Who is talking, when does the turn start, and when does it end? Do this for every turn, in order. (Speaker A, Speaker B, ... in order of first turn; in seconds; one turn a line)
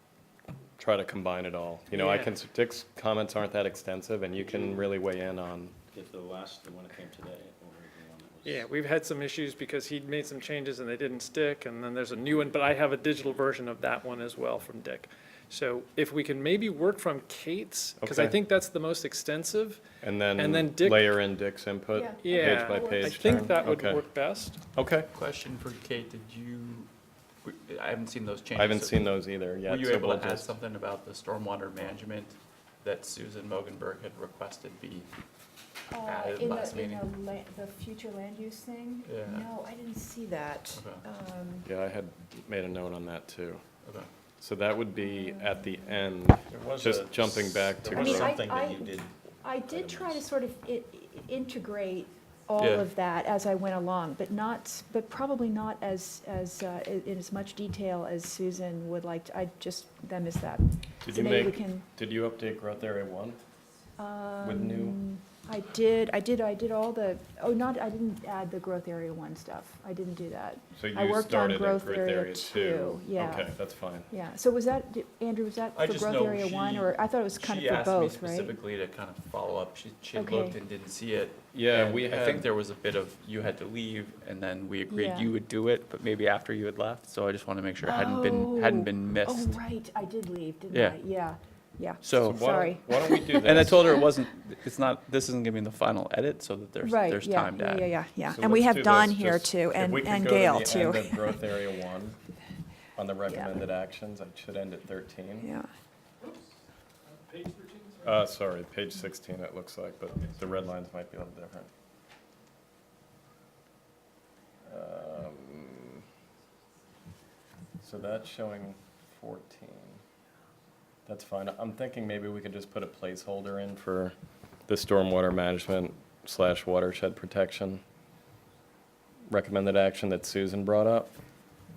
Speaker A: 0.8-5.8
Speaker B: 1.9-2.3
Speaker C: 4.4-4.9
Speaker C: 5.9-8.7
Speaker B: 8.4-19.8
Speaker A: 18.0-18.3
Speaker A: 20.0-24.1
Speaker B: 20.4-21.2
Speaker D: 21.9-23.6
Speaker B: 22.2-24.6
Speaker A: 24.8-25.1
Speaker E: 25.1-26.9
Speaker E: 27.4-29.1
Speaker A: 28.6-30.5
Speaker E: 29.6-35.1
Speaker D: 35.9-41.7
Speaker E: 36.0-37.1
Speaker E: 39.0-39.5
Speaker E: 40.7-41.0
Speaker A: 41.6-43.6
Speaker A: 44.4-48.4
Speaker D: 45.3-45.8
Speaker E: 46.5-46.9
Speaker C: 46.7-49.1
Speaker D: 47.9-61.8
Speaker C: 49.7-50.3
Speaker E: 52.6-52.9
Speaker A: 61.0-63.4
Speaker D: 64.0-73.5
Speaker A: 64.4-65.0
Speaker A: 70.8-74.1
Speaker D: 74.1-78.6
Speaker E: 75.7-89.6
Speaker D: 80.1-80.6
Speaker A: 81.5-82.5
Speaker D: 84.9-85.3
Speaker D: 87.8-94.0
Speaker E: 90.7-91.0
Speaker E: 92.0-92.6
Speaker A: 92.2-94.0
Speaker E: 93.4-98.0
Speaker D: 96.8-101.4
Speaker A: 98.3-102.2
Speaker A: 103.0-105.5
Speaker D: 105.4-105.7
Speaker B: 107.1-108.3
Speaker A: 108.0-111.7
Speaker B: 110.1-110.4
Speaker A: 114.7-116.0
Speaker A: 117.8-120.0
Speaker A: 121.1-124.2
Speaker A: 124.7-127.8
Speaker A: 129.3-131.1